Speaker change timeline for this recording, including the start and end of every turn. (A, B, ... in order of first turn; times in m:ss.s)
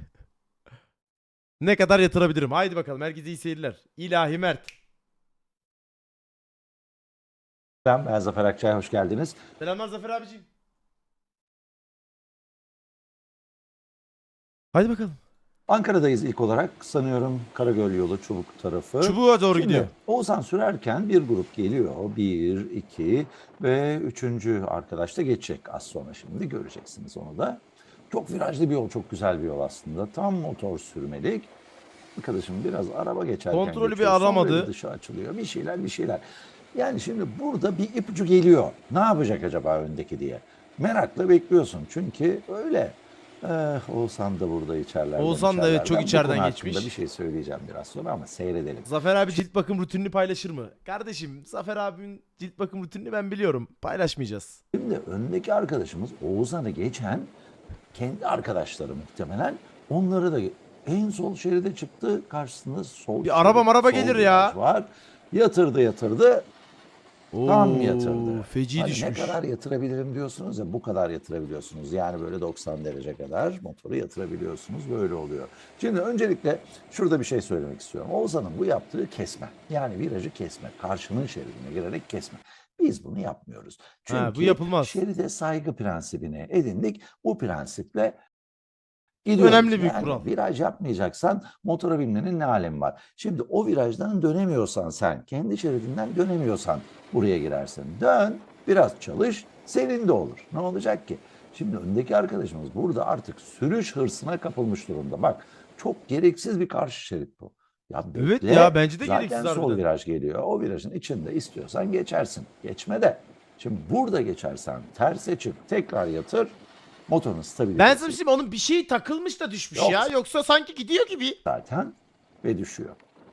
0:01.6-0:04.7 A
0:07.9-0:09.4 B
0:09.6-0:10.5 A
0:14.7-0:15.2 A
0:15.7-0:31.5 B
0:19.0-0:19.9 A
0:32.2-0:48.9 B
0:33.5-0:34.7 A
0:45.2-0:46.9 A
0:48.9-0:54.6 A
0:54.7-0:57.3 B
0:57.9-1:06.5 B
1:03.2-1:04.6 A
1:07.3-1:09.4 A
1:07.4-1:28.2 B
1:24.1-1:25.0 A
1:29.2-1:58.2 B
1:29.4-1:30.3 A
1:48.2-1:49.8 A
1:57.8-2:01.4 A
1:59.8-2:00.1 B
2:01.5-2:03.0 B